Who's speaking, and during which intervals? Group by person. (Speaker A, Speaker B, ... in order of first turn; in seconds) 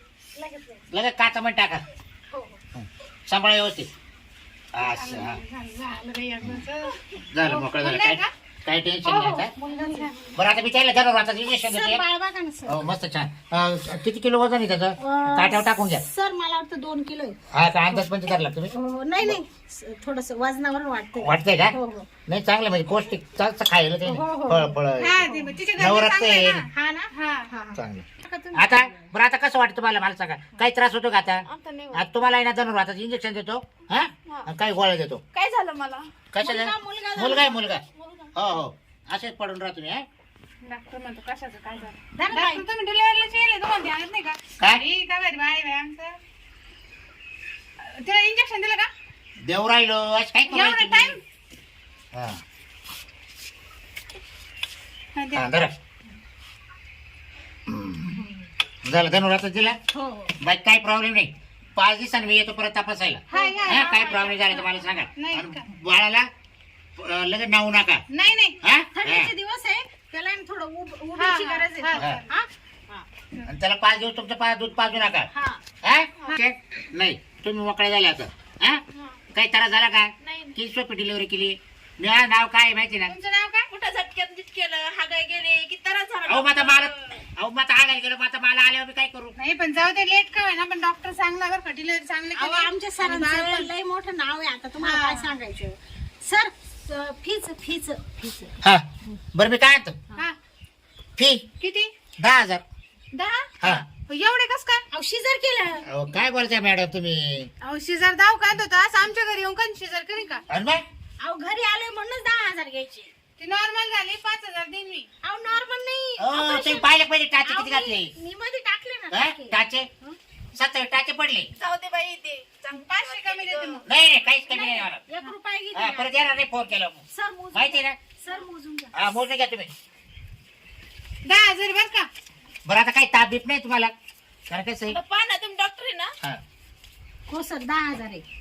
Speaker A: 0.3-0.9, 2.3-2.6, 9.6-10.3, 11.6-12.9, 15.0-17.4, 18.7-22.1, 24.0-25.5, 26.7-29.1, 36.4-37.6, 42.1-42.6, 59.9-60.4, 63.3-64.7, 68.9-73.1, 75.3-75.6, 92.3-98.6, 104.9-105.9, 111.2-113.1, 115.2-116.9, 117.4-120.2, 124.5-126.2, 127.1-129.0, 137.3-138.2
Speaker B: 0.9-1.8, 2.8-3.9, 4.7-5.4, 7.3-9.5, 10.3-12.0, 12.7-16.0, 17.5-19.4, 21.1-21.8, 22.3-26.7, 27.8-35.2, 36.3-37.8, 38.4-40.1, 44.6-44.8, 49.5-51.2, 52.1-52.4, 55.3-55.8, 57.7-58.2, 58.9-59.8, 60.4-66.3, 67.0-68.0, 68.6-69.3, 73.5-75.3, 75.8-78.8, 79.3-83.2, 86.3-89.4, 98.6-100.0, 101.2-101.5, 102.2-102.6, 105.9-107.5, 110.5-110.8, 116.2-118.1, 119.1-119.9, 120.5-121.5, 123.9-125.0, 125.7-127.0, 127.5-128.0, 128.9-129.7, 132.7-133.9, 134.5-135.0
Speaker C: 4.8-8.3, 9.1-10.2, 25.0-27.5, 40.6-46.2, 47.8-48.9, 50.5-51.2, 55.2-55.5, 63.3-64.2, 65.2-65.6, 68.1-68.6, 71.2-72.3, 83.1-83.7, 89.4-93.7, 94.8-95.3, 101.6-101.9, 103.1-104.8, 107.6-110.5, 113.4-115.1, 122.7-123.9, 131.2-132.1
Speaker D: 31.5-32.0, 35.3-36.1, 37.9-38.3, 80.2-80.6, 83.7-87.2, 121.6-123.9, 134.9-136.1